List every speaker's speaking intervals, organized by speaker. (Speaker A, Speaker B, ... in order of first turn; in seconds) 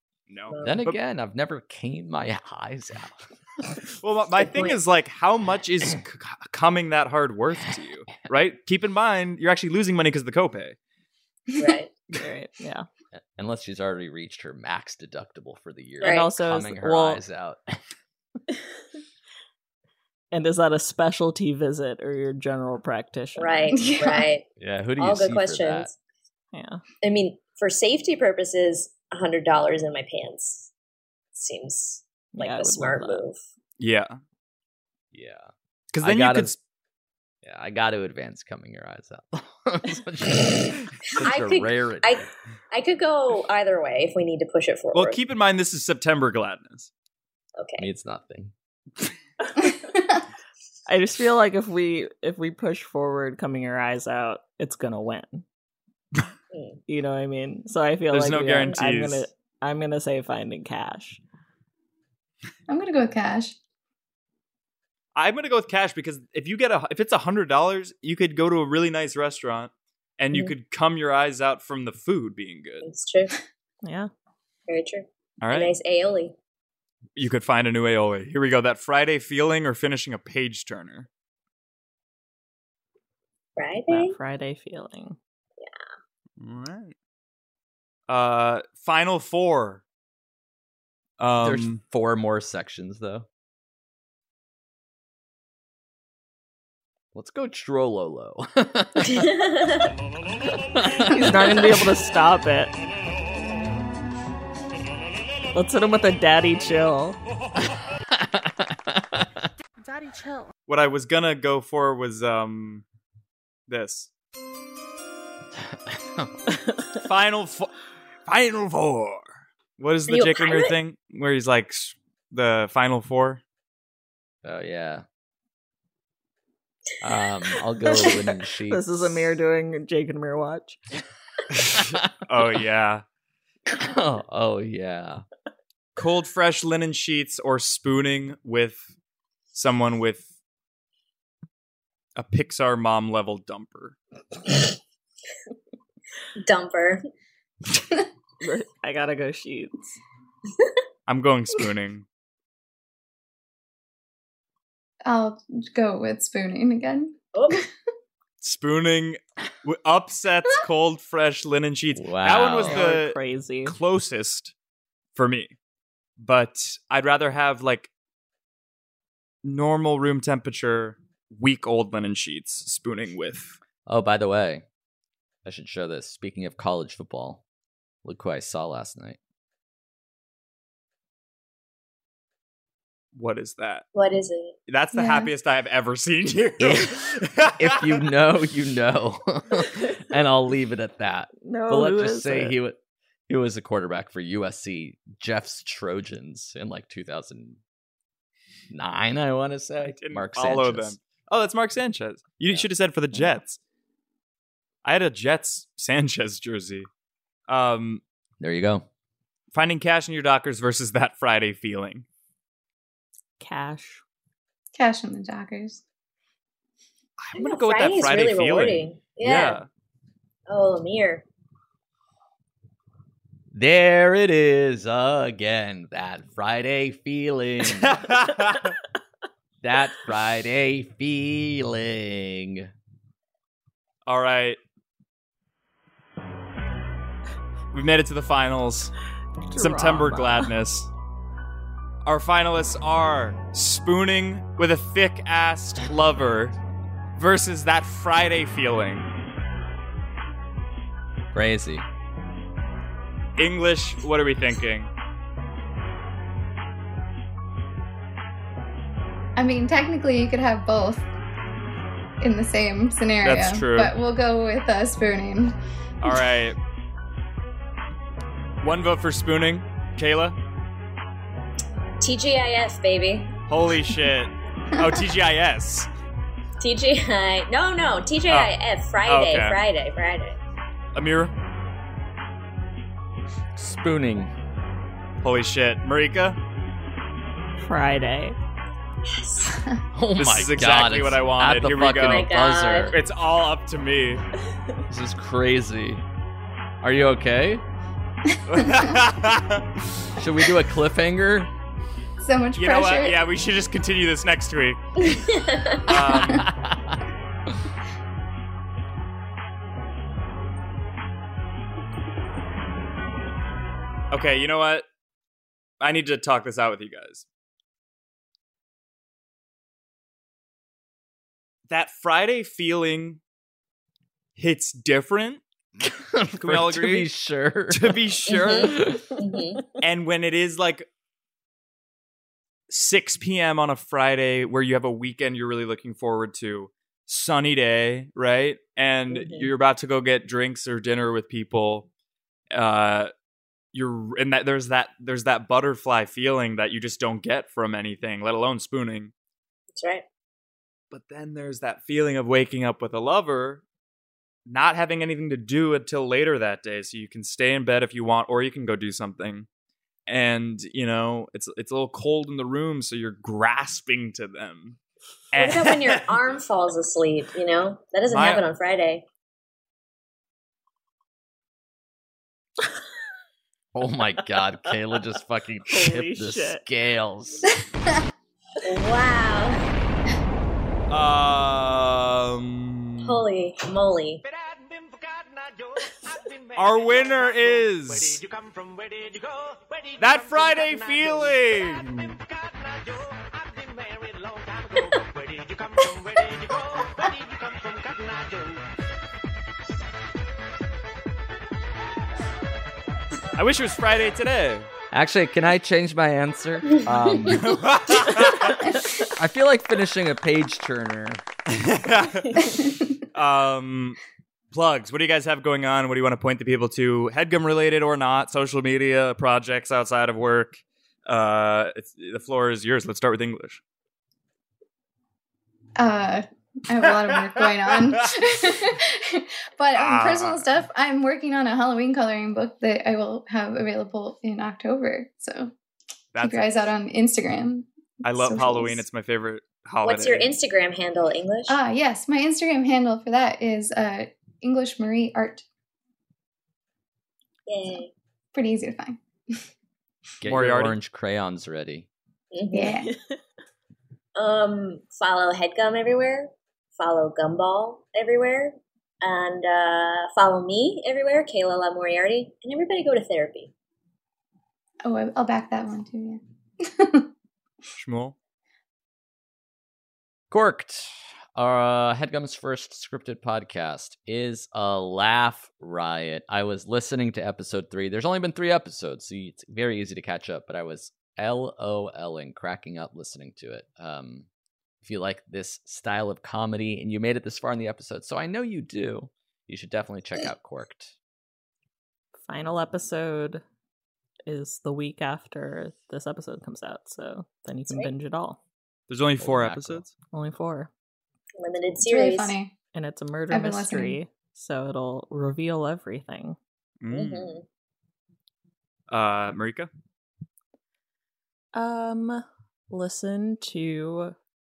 Speaker A: 0.3-1.0, 4.0-10.8, 33.8-34.1, 35.9-36.5, 44.9-46.9, 58.1-59.3, 65.1-72.9, 75.4-75.8, 77.2-81.1, 86.4-86.9, 88.1-89.8, 91.2-91.8, 110.7-112.8, 113.7-114.1, 117.0-117.7, 118.3-123.4, 131.7-133.0, 135.9-138.8, 139.5-140.2, 142.2-143.9, 151.1-152.1, 158.4-164.5, 165.1-165.5, 166.2-167.9, 169.4-173.6, 183.1-183.8, 184.7-188.0, 199.8-203.6, 204.8-206.9, 207.5-208.0, 209.5-212.0, 217.2-219.7, 227.7-228.8, 234.1-234.6, 237.7-238.9, 239.6-240.9, 242.0-246.5, 247.2-249.1, 253.4-254.9, 263.2-263.9, 266.0-266.6, 268.6-270.4, 273.5-275.9, 279.0-279.6, 280.9-281.3, 285.2-286.4, 290.2-292.3, 292.9-294.2, 298.5-299.7, 302.6-304.8, 305.9-306.4, 314.1-314.9, 315.8-317.2, 321.7-323.2, 324.4-325.4, 326.4-327.1, 327.7-328.9, 329.8-330.9, 332.7-341.9, 342.5-343.1, 343.7-349.1, 350.9-353.6, 354.5-359.4, 360.1-364.8, 365.3-366.1, 368.1-368.4, 380.9-383.2, 386.5-388.2, 390.0-392.2, 403.4-404.7, 407.3-408.6, 411.5-412.4, 413.1-414.0, 414.5-423.6, 426.8-428.2, 429.7-430.5, 436.1-436.7, 438.0-440.3, 450.2-450.7, 467.8-468.1, 498.9-499.9, 506.8-507.4, 508.9-509.7
Speaker B: 0.5-0.8, 4.4-4.8, 11.6-11.9, 16.0-16.3, 23.4-24.4, 25.0-25.9, 27.0-30.7, 31.3-33.4, 41.2-45.2, 47.6-47.9, 56.5-56.8, 72.8-73.3, 74.7-76.3, 83.6-84.2, 99.1-99.9, 120.1-120.7, 146.4-147.0, 157.3-157.6, 183.9-184.6, 217.3-219.6, 220.5-221.2, 272.0-273.3, 276.6-280.4, 289.1-289.6, 292.0-292.9, 305.0-305.8, 328.3-329.7, 339.1-339.5, 349.8-350.0, 365.4-369.0, 378.6-379.6, 383.0-384.2, 406.8-407.4, 439.8-441.6, 447.5-447.9, 452.3-452.8, 454.1-463.5, 501.4-502.4, 506.9-507.4
Speaker C: 0.6-3.3, 13.3-17.6, 24.6-25.9, 35.1-35.5, 36.0-36.5, 37.4-42.2, 47.8-48.5, 91.4-93.3, 97.1-99.3, 100.8-101.7, 107.7-109.2, 115.6-116.3, 124.4-125.0, 127.0-129.3, 131.8-132.0, 133.8-135.2, 161.9-162.9, 173.8-174.6, 175.4-177.4, 178.0-179.2, 186.6-197.6, 198.7-201.0, 202.5-203.4, 208.4-208.8, 223.5-228.2, 229.6-232.7, 251.3-251.8, 283.6-284.3, 289.9-293.0, 294.9-296.0, 296.8-297.6, 300.2-301.5, 306.4-307.0, 325.8-329.0, 373.7-377.5, 404.9-407.7, 409.1-411.2, 450.2-451.9, 470.3-484.3, 484.8-490.9, 499.2-499.9
Speaker D: 12.2-12.9, 16.0-17.2, 20.3-23.8, 26.5-26.8, 32.3-33.2, 50.9-55.4, 56.9-61.2, 73.8-74.1, 83.9-85.2, 101.1-102.7, 105.5-107.2, 128.7-130.8, 148.4-149.8, 162.6-163.8, 191.4-192.6, 213.4-214.0, 239.5-240.5, 287.6-288.4, 374.6-375.0, 375.7-376.6, 452.8-453.1, 492.2-493.4, 494.3-498.4, 500.1-500.7, 502.7-506.4, 511.5-514.1
Speaker E: 23.7-24.3, 62.7-63.6, 155.1-157.6, 184.9-185.3, 214.7-215.8, 259.4-261.1, 262.2-265.5, 298.3-298.9, 302.2-303.3, 305.9-306.4, 412.4-412.9, 425.8-435.5, 436.2-438.8, 441.5-445.4, 448.3-449.0, 452.5-452.9, 464.8-467.1, 501.8-502.5, 503.3-504.0